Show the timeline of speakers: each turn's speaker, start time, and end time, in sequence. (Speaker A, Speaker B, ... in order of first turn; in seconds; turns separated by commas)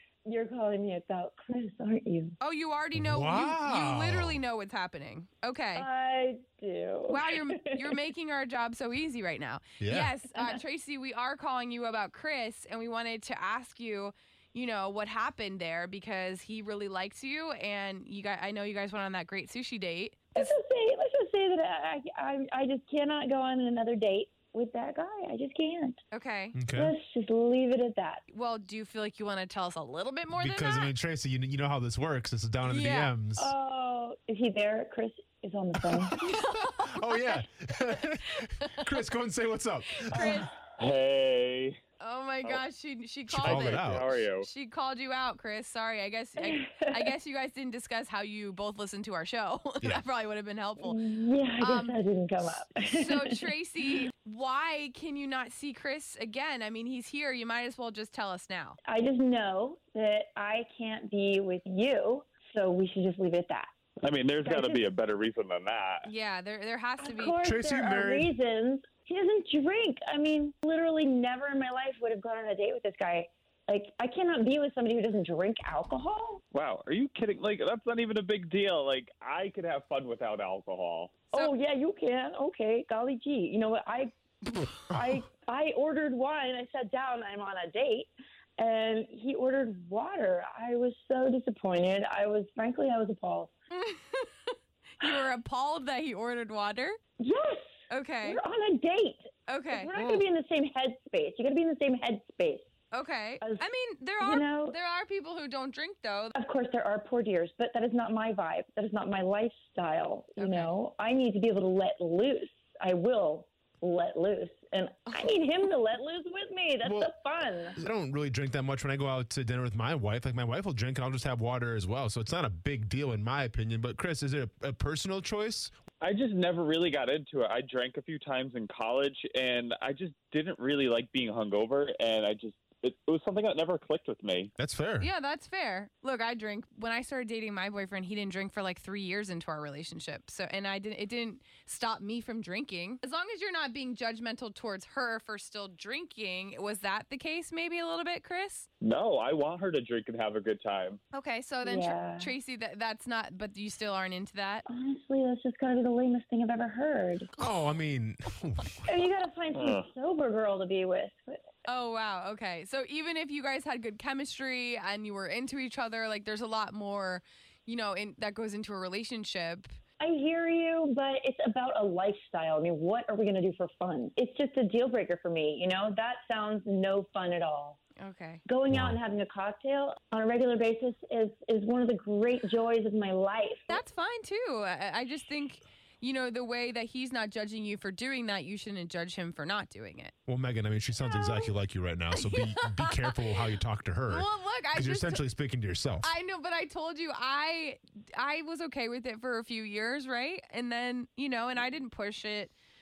Speaker A: 0.2-2.4, Speaker B: 2.4-5.8, Speaker C: 2.9-4.4, Speaker A: 5.8-7.9, Speaker B: 7.1-20.5, Speaker C: 9.8-10.1, Speaker A: 20.3-26.0, Speaker B: 26.1-26.5, Speaker C: 26.5-26.9, Speaker A: 26.7-28.2, Speaker B: 28.3-30.9, Speaker C: 30.3-33.5, Speaker B: 32.6-33.1, Speaker A: 33.4-36.1, Speaker C: 36.0-40.4, Speaker B: 36.1-37.4, Speaker B: 38.4-38.8, Speaker B: 40.0-40.5, Speaker A: 40.1-40.6, Speaker D: 40.8-41.8, Speaker B: 42.0-51.0, Speaker C: 43.3-44.2, Speaker D: 43.4-44.5, Speaker A: 46.4-47.1, Speaker A: 50.8-53.5, Speaker B: 51.6-52.0, Speaker B: 52.9-58.8, Speaker A: 58.9-63.7, Speaker D: 64.0-66.1, Speaker A: 64.4-64.8, Speaker B: 66.0-67.4, Speaker A: 67.0-76.4, Speaker C: 67.4-68.3, Speaker D: 76.5-81.2, Speaker A: 81.3-93.5, Speaker B: 93.7-97.0, Speaker A: 97.2-102.7, Speaker B: 97.9-98.4, Speaker B: 99.5-99.9, Speaker B: 102.9-106.3, Speaker A: 104.2-104.8, Speaker A: 106.3-117.8, Speaker B: 110.4-110.7, Speaker C: 116.8-117.2, Speaker C: 117.8-125.7, Speaker D: 126.0-134.5, Speaker C: 134.6-135.1, Speaker B: 135.0-148.7, Speaker D: 148.8-151.0, Speaker B: 151.1-154.6, Speaker A: 151.6-152.3, Speaker A: 154.7-157.3, Speaker C: 157.4-158.9, Speaker A: 158.8-161.4, Speaker D: 159.5-159.8, Speaker B: 161.7-169.7, Speaker A: 170.0-177.8, Speaker B: 178.0-178.4, Speaker A: 178.4-183.8, Speaker C: 178.7-179.0, Speaker B: 183.7-190.1, Speaker C: 190.3-196.1, Speaker B: 191.0-191.5, Speaker B: 192.1-193.2, Speaker B: 194.1-195.2, Speaker B: 196.0-202.5